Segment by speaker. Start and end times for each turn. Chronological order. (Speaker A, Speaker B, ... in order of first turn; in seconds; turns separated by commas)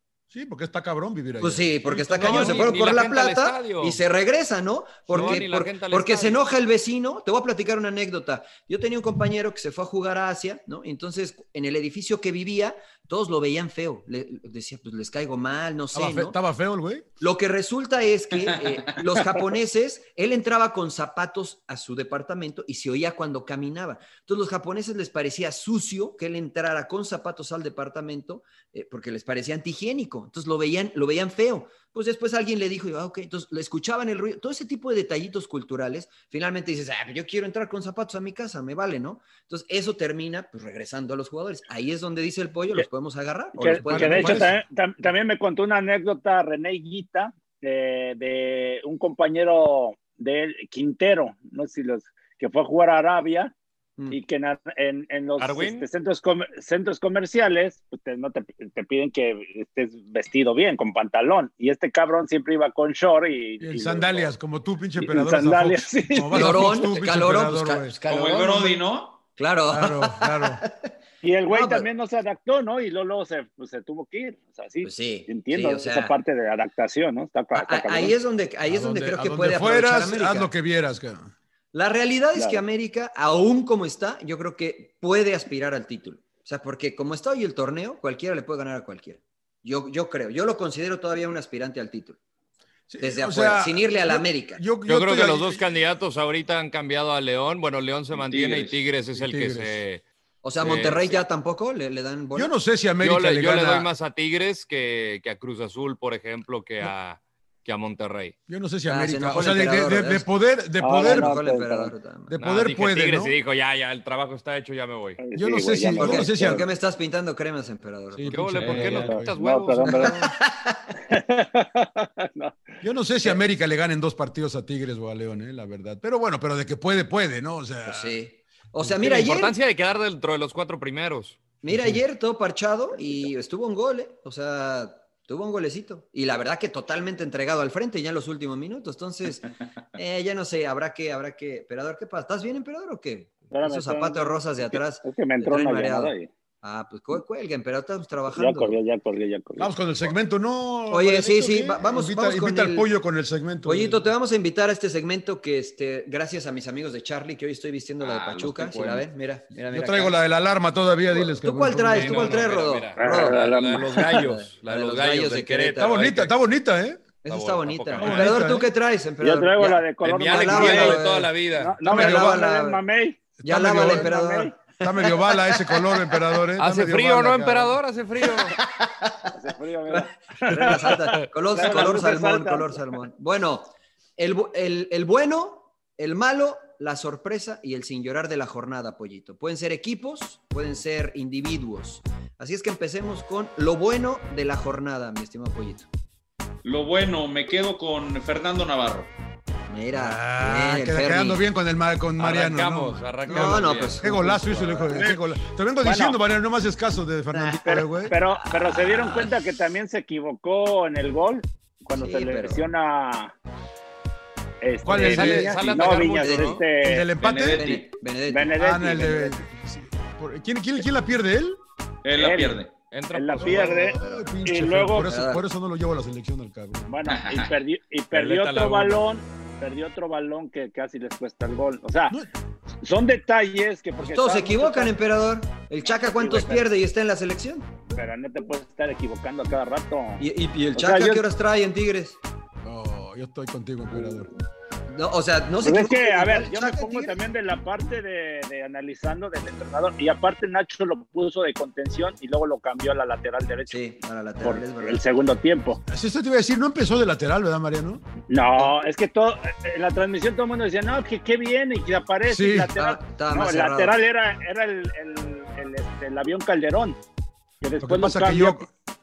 Speaker A: 0.3-2.8, Speaker B: 1.4-16.4, Speaker C: 2.2-4.0, Speaker C: 5.1-6.5, Speaker A: 15.9-17.1, Speaker B: 17.2-44.5, Speaker D: 43.5-53.5, Speaker A: 43.7-44.6, Speaker D: 54.1-64.3, Speaker C: 55.4-55.9, Speaker A: 63.6-68.0, Speaker D: 65.0-66.8, Speaker B: 66.3-68.5, Speaker E: 68.1-69.2, Speaker B: 69.4-70.9, Speaker A: 69.7-70.6, Speaker D: 71.2-78.2, Speaker B: 71.5-71.9, Speaker B: 74.8-76.1, Speaker B: 77.5-80.5, Speaker A: 78.6-81.3, Speaker B: 81.7-92.2, Speaker D: 82.3-82.6, Speaker A: 92.9-95.7, Speaker B: 93.0-94.7, Speaker C: 94.8-100.0, Speaker E: 98.1-98.8, Speaker A: 99.1-99.8, Speaker B: 100.4-102.5, Speaker C: 100.6-101.2, Speaker A: 102.3-103.9, Speaker C: 103.0-108.3, Speaker A: 108.5-111.4, Speaker B: 108.9-110.2, Speaker D: 110.8-111.9, Speaker B: 111.0-112.3, Speaker A: 112.3-113.3, Speaker C: 112.3-115.2, Speaker D: 115.2-116.6, Speaker A: 115.3-116.7, Speaker B: 116.0-118.8, Speaker A: 118.1-120.0, Speaker C: 118.3-120.2, Speaker D: 118.7-120.2, Speaker B: 119.9-120.9, Speaker D: 121.1-122.7, Speaker A: 122.8-128.2, Speaker B: 127.8-129.6, Speaker C: 128.9-131.4, Speaker B: 131.6-148.8, Speaker A: 131.7-132.0, Speaker D: 143.5-146.3, Speaker D: 148.3-149.7, Speaker A: 149.6-154.1, Speaker B: 150.9-152.9, Speaker B: 153.6-160.2, Speaker E: 158.0-158.6, Speaker C: 158.2-159.0, Speaker A: 159.7-162.5, Speaker B: 161.1-163.4, Speaker C: 161.9-166.3, Speaker D: 162.9-164.1, Speaker B: 164.0-166.0, Speaker A: 165.8-167.0, Speaker B: 167.2-172.8, Speaker C: 167.2-168.5, Speaker A: 167.9-168.7, Speaker D: 169.2-173.2, Speaker C: 170.0-171.8, Speaker A: 171.9-172.4, Speaker A: 173.4-174.1, Speaker B: 173.4-176.2, Speaker D: 173.8-174.6, Speaker A: 174.8-177.7, Speaker C: 176.6-178.6, Speaker B: 178.4-179.3, Speaker D: 179.3-182.8, Speaker B: 179.9-195.9, Speaker C: 181.1-181.9, Speaker E: 196.6-199.1, Speaker B: 199.7-201.4, Speaker A: 199.9-208.1, Speaker C: 202.2-204.4, Speaker B: 203.2-204.9, Speaker D: 205.8-206.2, Speaker B: 207.3-207.6, Speaker D: 207.6-213.3, Speaker B: 208.5-209.3, Speaker B: 211.9-212.6, Speaker D: 214.6-217.1, Speaker A: 214.8-215.9, Speaker C: 214.9-216.7, Speaker B: 216.2-216.6, Speaker A: 216.8-217.7, Speaker E: 217.2-217.9, Speaker B: 217.4-218.6, Speaker D: 218.3-219.4, Speaker A: 218.6-221.6, Speaker E: 222.0-222.7, Speaker D: 222.1-222.6, Speaker C: 222.9-224.1, Speaker D: 223.1-225.1, Speaker A: 223.4-226.9, Speaker B: 225.0-225.4, Speaker D: 226.9-232.2, Speaker E: 227.1-227.5, Speaker C: 228.1-229.0, Speaker D: 232.8-234.9, Speaker B: 234.0-237.7, Speaker D: 235.8-236.7, Speaker D: 237.9-240.2, Speaker B: 240.2-242.2, Speaker D: 240.7-241.2, Speaker A: 242.6-244.3, Speaker B: 244.9-247.2, Speaker D: 245.6-253.8, Speaker B: 253.7-255.0, Speaker D: 254.4-255.8, Speaker A: 255.9-258.0, Speaker D: 258.3-267.0, Speaker A: 262.2-262.7, Speaker B: 262.8-264.0, Speaker D: 267.6-268.7, Speaker A: 267.8-268.7